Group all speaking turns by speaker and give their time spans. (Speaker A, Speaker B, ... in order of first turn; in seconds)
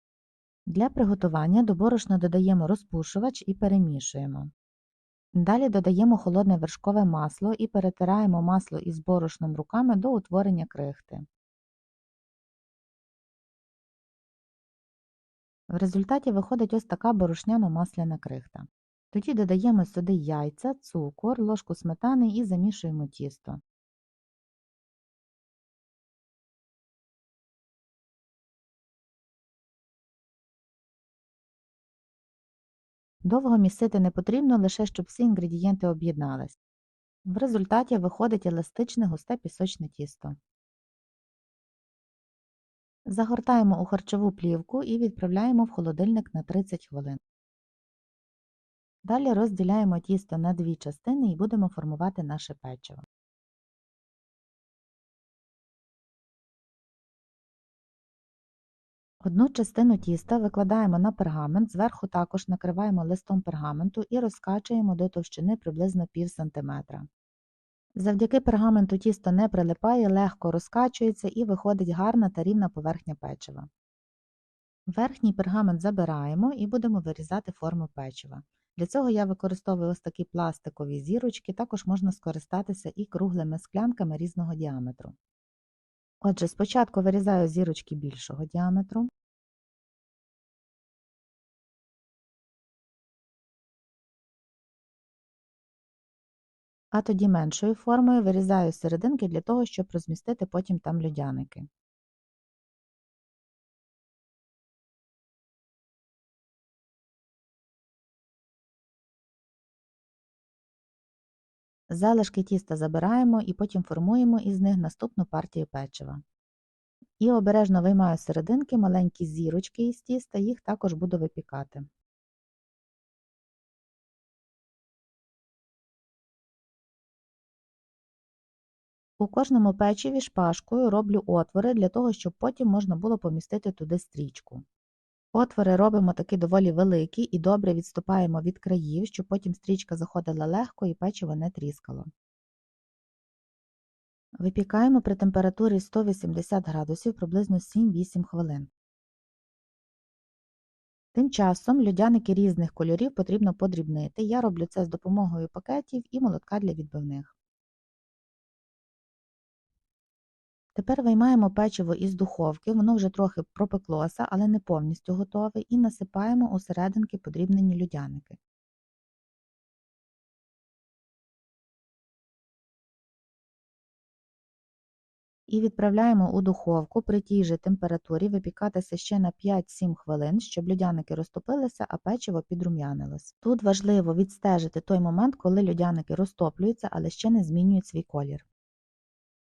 Speaker A: 0.7-4.5, 5.3-11.3, 15.7-23.6, 33.2-36.6, 37.3-40.4, 43.1-47.2, 49.0-53.0, 59.2-67.1, 68.0-73.7, 74.9-85.1, 86.2-89.1, 96.9-101.7, 111.9-116.2, 117.2-121.9, 129.2-134.6, 135.3-142.1, 144.4-148.7, 151.1-157.3, 160.8-168.4, 175.5-188.4